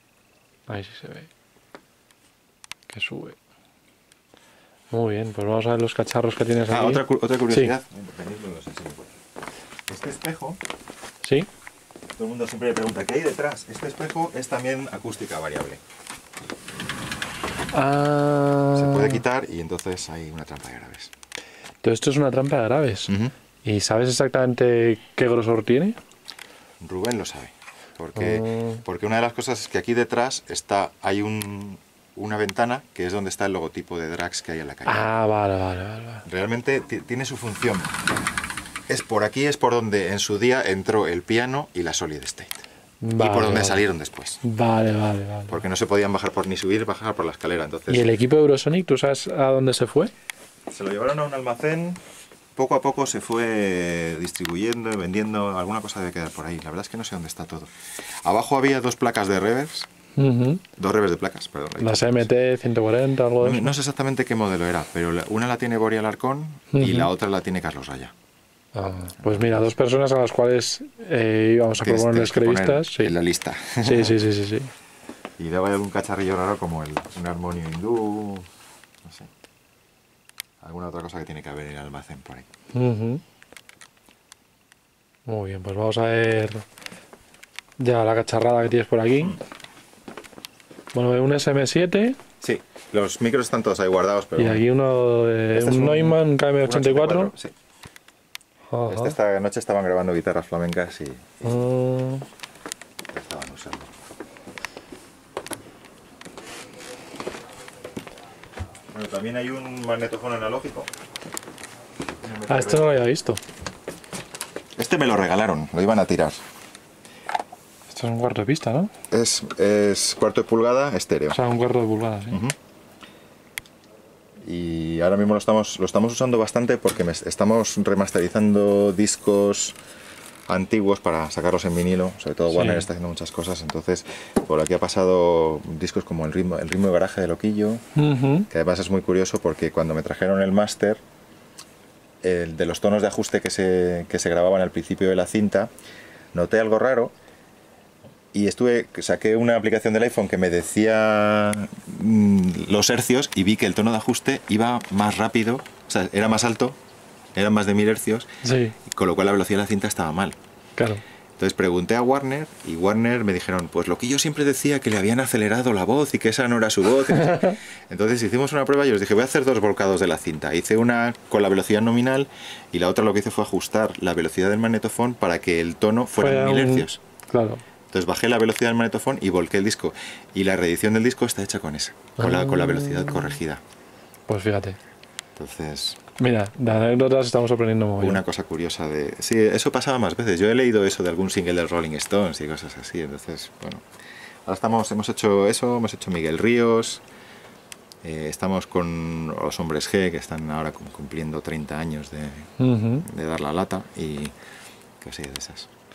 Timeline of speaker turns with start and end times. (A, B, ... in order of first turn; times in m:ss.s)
0:00.7-0:01.3 A
0:02.9-0:03.4 A
0:04.9-0:07.7 A
0:06.7-0:09.1 B
0:09.9-0:10.6 B
0:11.2-0:11.5 A
0:12.2-0:15.8 B
0:17.7-0:19.2 A
0:18.7-0:21.1 B
0:21.8-0:23.1 A
0:23.1-0:23.3 B
0:23.6-0:26.0 A
0:26.8-0:35.1 B
0:28.2-0:28.8 A
0:34.8-0:36.2 A
0:36.2-0:38.0 B
0:38.9-0:42.6 B
0:43.0-0:43.8 A
0:43.2-0:44.4 B
0:44.4-0:45.6 A
0:45.5-0:48.1 B
0:47.9-0:50.1 A
0:50.7-0:52.0 B
0:52.6-0:57.7 B
0:58.2-0:59.9 B
1:00.2-1:00.6 A
1:00.8-1:02.3 B
1:01.8-1:03.7 A
1:03.4-1:08.1 B
1:06.7-1:07.1 A
1:08.7-1:13.1 A
1:09.2-1:09.7 B
1:11.7-1:14.2 B
1:13.8-1:14.7 A
1:15.4-1:18.5 B
1:19.0-1:19.3 B
1:20.6-1:22.5 B
1:22.7-1:23.2 A
1:25.2-1:26.6 A
1:27.8-1:29.4 A
1:30.9-1:32.2 A
1:32.4-1:34.6 B
1:34.4-1:37.3 A
1:35.5-1:37.5 B
1:38.7-1:39.1 A
1:38.9-1:41.7 B
1:41.4-1:42.2 A
1:43.1-1:43.9 B
1:48.9-1:50.9 B
1:52.2-1:52.9 B
1:52.5-1:53.4 A
1:54.8-1:56.4 B
1:57.9-1:58.9 A
1:59.1-2:01.4 B
2:01.3-2:02.4 A
2:02.3-2:02.6 B
2:04.4-2:09.8 B
2:10.5-2:17.8 B
2:12.5-2:12.9 A
2:18.0-2:18.5 A
2:18.5-2:21.0 B
2:22.2-2:25.7 B
2:26.3-2:27.1 B
2:28.3-2:36.8 B
2:37.3-2:38.3 B
2:38.4-2:38.8 A
2:38.8-2:40.4 B
2:40.8-2:41.0 A
2:41.4-2:57.0 B
2:47.2-2:47.6 A
2:56.2-2:57.6 A
2:57.9-3:03.6 B
3:02.2-3:03.4 A
3:04.3-3:04.8 A
3:05.4-3:06.0 B
3:06.2-3:08.2 A
3:08.0-3:13.8 B
3:14.4-3:17.0 B
3:18.0-3:24.3 B
3:22.6-3:23.0 A
3:25.0-3:25.7 B